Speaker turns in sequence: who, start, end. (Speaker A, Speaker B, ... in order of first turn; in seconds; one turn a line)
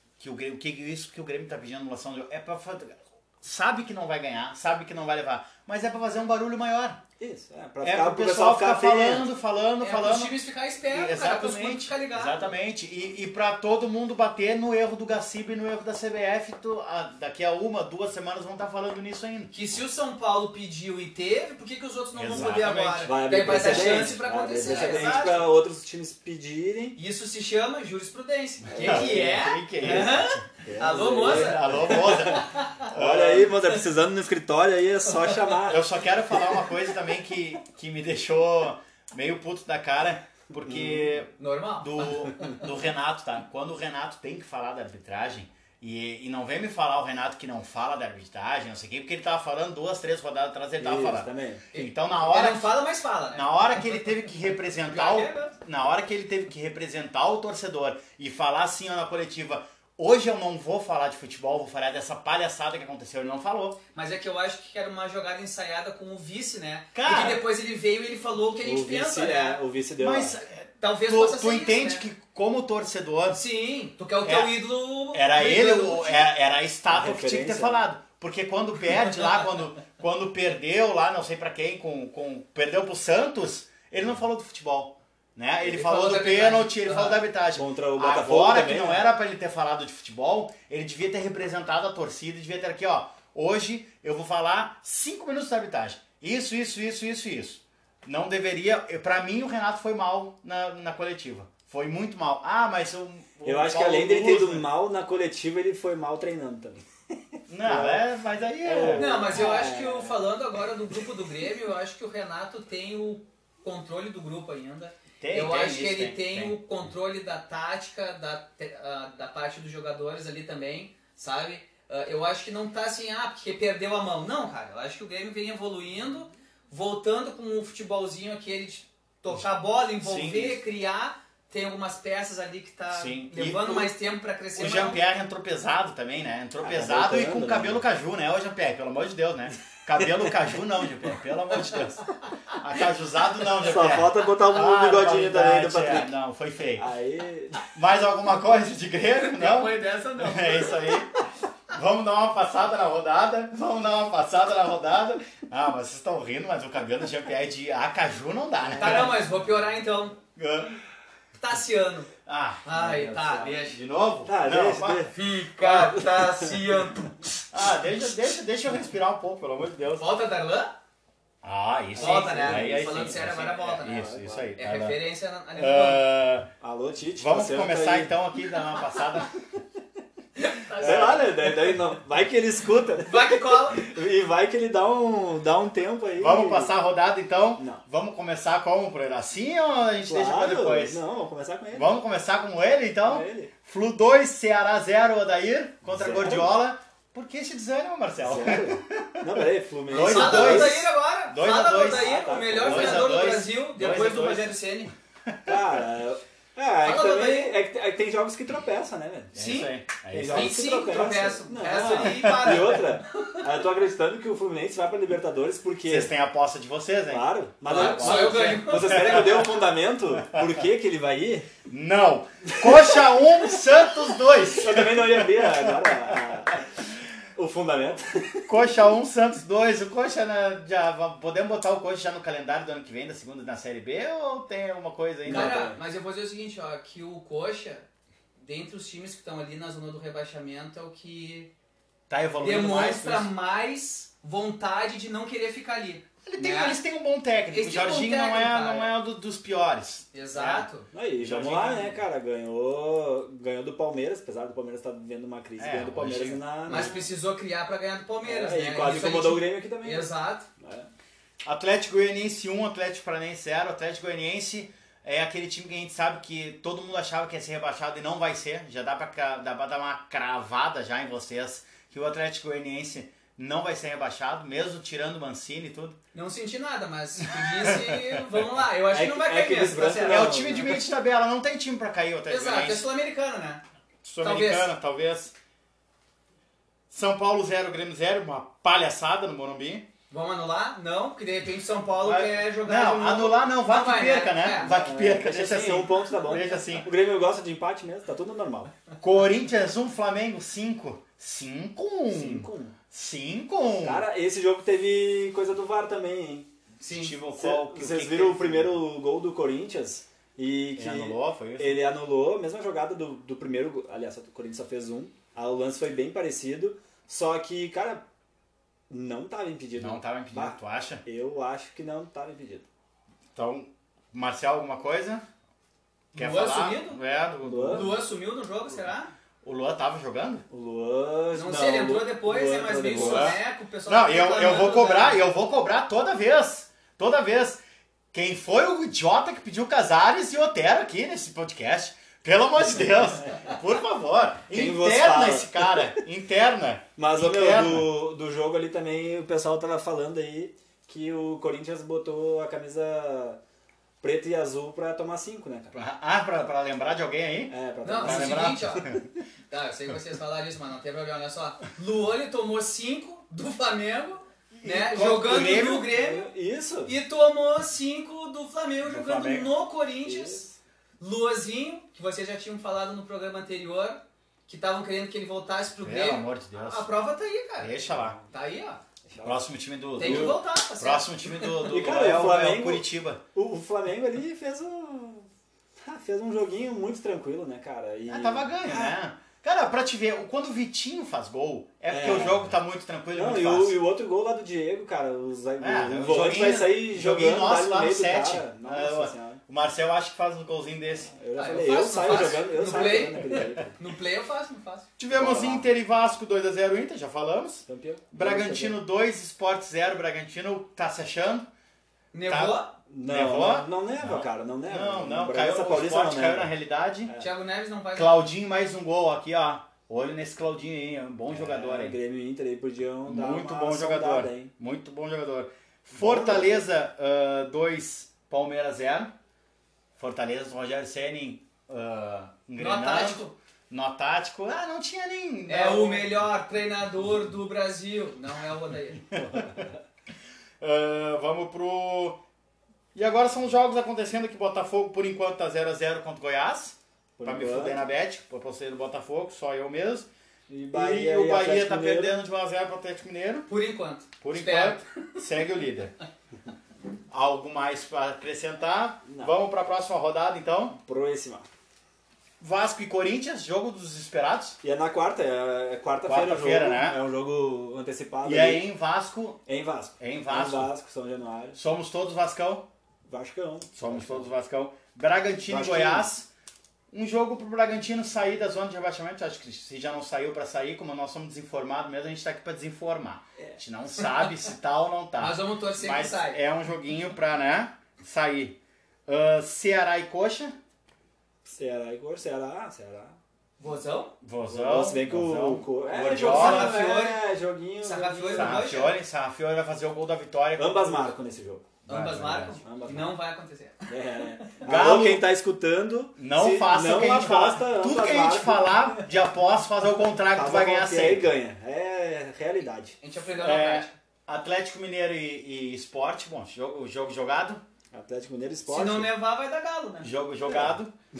Speaker A: 0.2-7.0
Speaker B: 7.2-9.3
Speaker A: 7.8-10.3
Speaker C: 9.8-12.5
Speaker A: 10.9-19.5
Speaker C: 19.5-25.4
Speaker A: 22.1-25.3
Speaker B: 23.0-27.0
Speaker C: 26.9-32.9
Speaker B: 28.7-30.1
Speaker A: 28.8-30.4
Speaker B: 30.6-32.3
Speaker A: 31.2-33.5
Speaker B: 32.9-35.9
Speaker A: 35.7-52.7
Speaker B: 40.6-41.2
Speaker C: 41.4-42.7
Speaker B: 50.8-51.6
Speaker C: 51.7-53.5
Speaker A: 53.3-63.8
Speaker C: 54.9-55.5
Speaker C: 63.9-69.6
Speaker A: 66.9-67.4
Speaker B: 68.6-70.4
Speaker A: 70.0-73.4
Speaker C: 70.8-72.0
Speaker C: 73.3-76.3
Speaker A: 74.2-74.5
Speaker A: 75.1-104.7
Speaker B: 76.9-77.9
Speaker C: 85.6-87.2
Speaker B: 87.5-89.0
Speaker B: 103.4-106.8
Speaker A: 107.5-109.5
Speaker B: 107.6-108.0
Speaker B: 108.6-110.2
Speaker C: 109.0-135.0
Speaker A: 115.2-116.6
Speaker A: 130.0-130.6
Speaker A: 132.9-133.9
Speaker A: 134.5-146.9
Speaker B: 136.6-137.8
Speaker B: 143.6-146.1
Speaker B: 146.8-147.6
Speaker A: 147.6-151.1
Speaker C: 149.1-151.1
Speaker A: 151.7-159.2
Speaker B: 158.6-159.1
Speaker C: 158.8-160.2
Speaker A: 160.3-160.8
Speaker C: 161.4-162.1
Speaker A: 162.2-165.1
Speaker C: 162.6-163.8
Speaker B: 164.2-166.5
Speaker C: 165.1-167.3
Speaker A: 167.5-170.1
Speaker C: 169.9-170.7
Speaker A: 171.4-175.0
Speaker B: 171.9-173.2
Speaker C: 172.0-176.0
Speaker B: 173.8-174.5
Speaker A: 175.5-176.5
Speaker B: 176.6-178.1
Speaker A: 177.2-179.4
Speaker C: 180.3-181.8
Speaker B: 180.8-186.7
Speaker A: 180.8-181.2
Speaker C: 183.0-183.9
Speaker A: 186.2-191.0
Speaker B: 187.6-187.8
Speaker B: 190.0-191.9
Speaker A: 191.7-204.5
Speaker B: 193.0-193.5
Speaker B: 195.9-196.5
Speaker B: 198.2-200.8
Speaker C: 199.9-204.9
Speaker B: 201.8-203.3
Speaker A: 205.2-205.8
Speaker B: 205.4-209.3
Speaker C: 206.8-207.6
Speaker A: 209.3-210.6
Speaker C: 209.3-209.7
Speaker B: 210.1-216.1
Speaker C: 210.3-213.4
Speaker A: 212.1-212.5
Speaker A: 215.9-219.6
Speaker B: 217.1-221.5
Speaker C: 217.7-219.4
Speaker A: 220.2-220.6
Speaker A: 221.7-226.3
Speaker B: 222.6-223.0
Speaker B: 224.4-226.6
Speaker B: 227.3-228.7
Speaker A: 228.5-235.7
Speaker B: 235.2-235.8
Speaker C: 235.3-237.8
Speaker C: 238.3-241.5
Speaker A: 242.1-243.3
Speaker C: 242.4-246.8
Speaker A: 246.2-252.0
Speaker C: 247.5-248.9
Speaker C: 250.1-250.9
Speaker B: 250.9-257.0
Speaker A: 255.6-257.1
Speaker C: 256.7-260.5
Speaker B: 258.2-260.9
Speaker A: 261.4-276.0
Speaker C: 276.1-280.6
Speaker A: 277.2-278.2
Speaker B: 278.9-280.8
Speaker A: 280.0-282.9
Speaker C: 282.3-283.6
Speaker A: 284.0-285.3
Speaker C: 284.2-284.7
Speaker A: 286.9-289.9
Speaker C: 290.1-294.7
Speaker A: 292.0-296.9
Speaker B: 294.6-298.7
Speaker A: 299.0-304.0
Speaker B: 302.1-302.8
Speaker B: 303.8-306.5
Speaker C: 306.8-307.1
Speaker A: 306.8-308.7
Speaker B: 307.3-318.0
Speaker A: 310.8-311.8
Speaker B: 318.9-322.7
Speaker A: 319.8-321.0
Speaker A: 323.4-325.2
Speaker C: 326.1-327.0
Speaker A: 326.1-328.0
Speaker B: 327.4-327.9
Speaker C: 327.7-329.1
Speaker A: 329.4-330.4
Speaker B: 330.5-333.4
Speaker C: 331.3-335.3
Speaker A: 332.9-337.6
Speaker A: 338.1-347.9
Speaker B: 344.5-346.0
Speaker B: 347.0-353.4
Speaker B: 354.0-355.8
Speaker A: 355.7-359.0
Speaker B: 357.5-359.0
Speaker C: 357.8-358.9
Speaker C: 359.5-366.3
Speaker A: 364.6-365.9
Speaker B: 365.9-367.0
Speaker C: 366.9-370.5
Speaker A: 368.8-369.5
Speaker B: 370.0-370.6
Speaker C: 371.0-377.8
Speaker A: 375.8-376.9
Speaker A: 377.6-378.2
Speaker B: 377.9-378.2
Speaker C: 378.3-378.8
Speaker B: 379.1-379.4
Speaker A: 379.2-383.2
Speaker C: 379.9-381.7
Speaker B: 380.0-380.4
Speaker B: 381.6-385.3
Speaker B: 385.8-389.0
Speaker A: 388.1-393.8
Speaker B: 391.9-392.5
Speaker B: 393.1-399.4
Speaker A: 395.6-401.1
Speaker B: 400.9-403.8
Speaker C: 401.4-404.9
Speaker A: 405.0-411.5
Speaker B: 405.1-405.7
Speaker B: 407.6-408.8
Speaker C: 412.1-412.7
Speaker A: 412.3-417.1
Speaker B: 412.9-416.5
Speaker B: 417.0-417.3
Speaker C: 417.2-418.2
Speaker A: 417.9-422.0
Speaker B: 421.3-424.5
Speaker A: 423.1-429.1
Speaker B: 425.9-426.6
Speaker A: 430.0-436.2
Speaker C: 432.6-433.3
Speaker C: 435.5-439.1
Speaker A: 439.1-439.6
Speaker B: 439.1-439.8
Speaker A: 440.6-442.2
Speaker A: 442.9-450.1
Speaker B: 447.2-447.8
Speaker B: 450.5-452.2
Speaker A: 450.7-453.5
Speaker C: 453.5-455.4
Speaker A: 454.2-455.9
Speaker A: 457.1-460.8
Speaker B: 459.1-459.3
Speaker B: 460.8-461.5
Speaker A: 462.4-464.6
Speaker B: 464.6-468.7
Speaker A: 466.1-467.0
Speaker A: 468.2-469.4
Speaker B: 469.4-471.6
Speaker A: 470.0-470.7
Speaker A: 471.6-472.7
Speaker B: 473.1-474.3
Speaker A: 473.8-476.3
Speaker B: 475.5-476.1
Speaker A: 476.9-490.6
Speaker C: 485.2-486.4
Speaker B: 491.4-493.2
Speaker C: 493.6-494.1
Speaker A: 494.2-496.8
Speaker B: 494.5-498.6
Speaker C: 496.0-497.2
Speaker C: 497.8-498.9
Speaker A: 498.3-501.1
Speaker B: 500.6-501.7
Speaker A: 501.9-502.6
Speaker C: 501.9-503.9
Speaker B: 502.6-503.1
Speaker B: 503.9-509.0
Speaker A: 504.6-505.3
Speaker A: 506.2-511.3
Speaker B: 510.3-513.0
Speaker C: 513.0-513.9
Speaker A: 513.4-517.6
Speaker B: 517.9-519.1
Speaker C: 518.7-520.1
Speaker A: 520.0-520.9